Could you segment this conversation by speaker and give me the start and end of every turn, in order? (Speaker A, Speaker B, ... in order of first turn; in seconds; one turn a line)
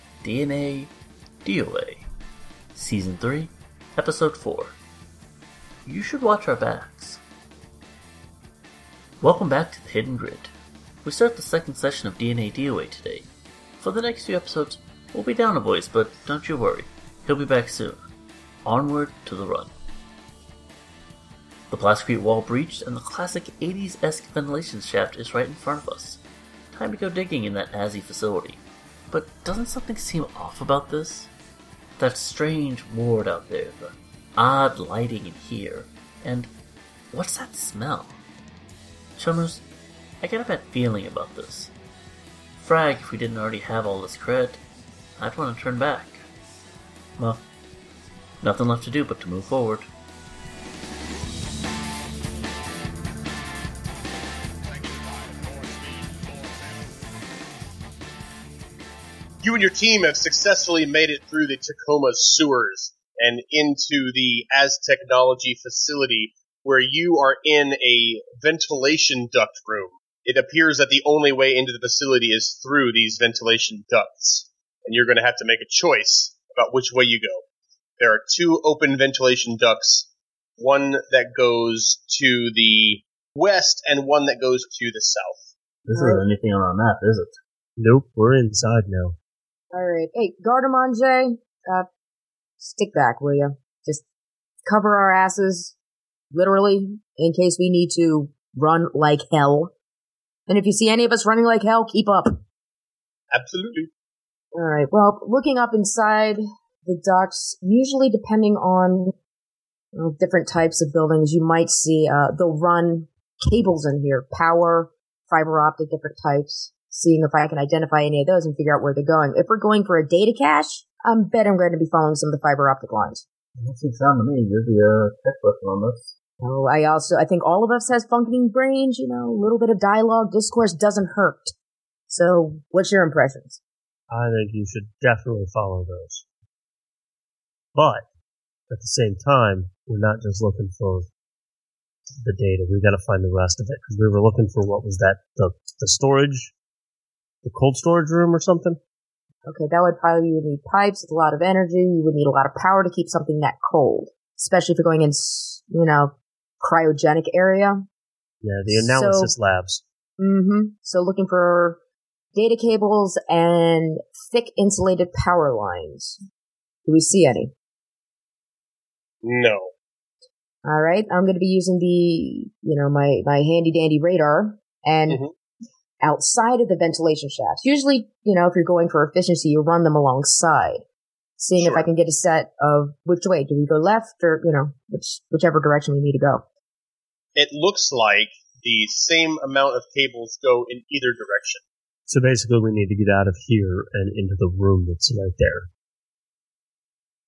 Speaker A: 0.2-0.9
Speaker A: 1.4-2.1
Speaker A: 2.7-4.8
Speaker A: 5.8-7.2
Speaker A: 9.2-10.5
Speaker A: 11.0-18.0
Speaker A: 18.6-19.7
Speaker A: 21.7-26.2
Speaker A: 26.7-31.3
Speaker A: 32.0-36.5
Speaker A: 37.1-38.2
Speaker A: 39.2-39.6
Speaker A: 40.2-41.7
Speaker A: 42.6-44.6
Speaker A: 45.2-46.2
Speaker A: 47.2-47.4
Speaker A: 48.4-49.9
Speaker B: 54.7-56.8
Speaker B: 59.4-77.4
Speaker B: 78.0-80.1
Speaker B: 80.6-85.5
Speaker A: 85.8-87.4
Speaker C: 85.9-86.2
Speaker D: 87.8-89.2
Speaker C: 89.7-91.9
Speaker C: 92.6-94.0
Speaker C: 94.7-95.8
Speaker C: 96.3-99.7
Speaker C: 100.5-102.4
Speaker B: 103.3-103.9
Speaker C: 104.5-109.1
Speaker C: 110.0-123.2
Speaker A: 123.6-126.1
Speaker C: 126.4-131.5
Speaker C: 132.1-133.6
Speaker D: 134.1-136.2
Speaker D: 137.8-138.1
Speaker D: 138.7-141.1
Speaker D: 142.2-146.5
Speaker D: 147.4-148.8
Speaker C: 149.5-157.8
Speaker D: 158.4-159.8
Speaker C: 158.7-159.3
Speaker C: 160.2-161.8
Speaker C: 162.3-166.2
Speaker C: 166.8-167.5
Speaker B: 169.2-169.7
Speaker C: 170.6-175.2
Speaker C: 176.0-180.8
Speaker C: 181.4-186.4
Speaker B: 181.6-181.9
Speaker B: 187.3-191.6
Speaker D: 192.1-195.7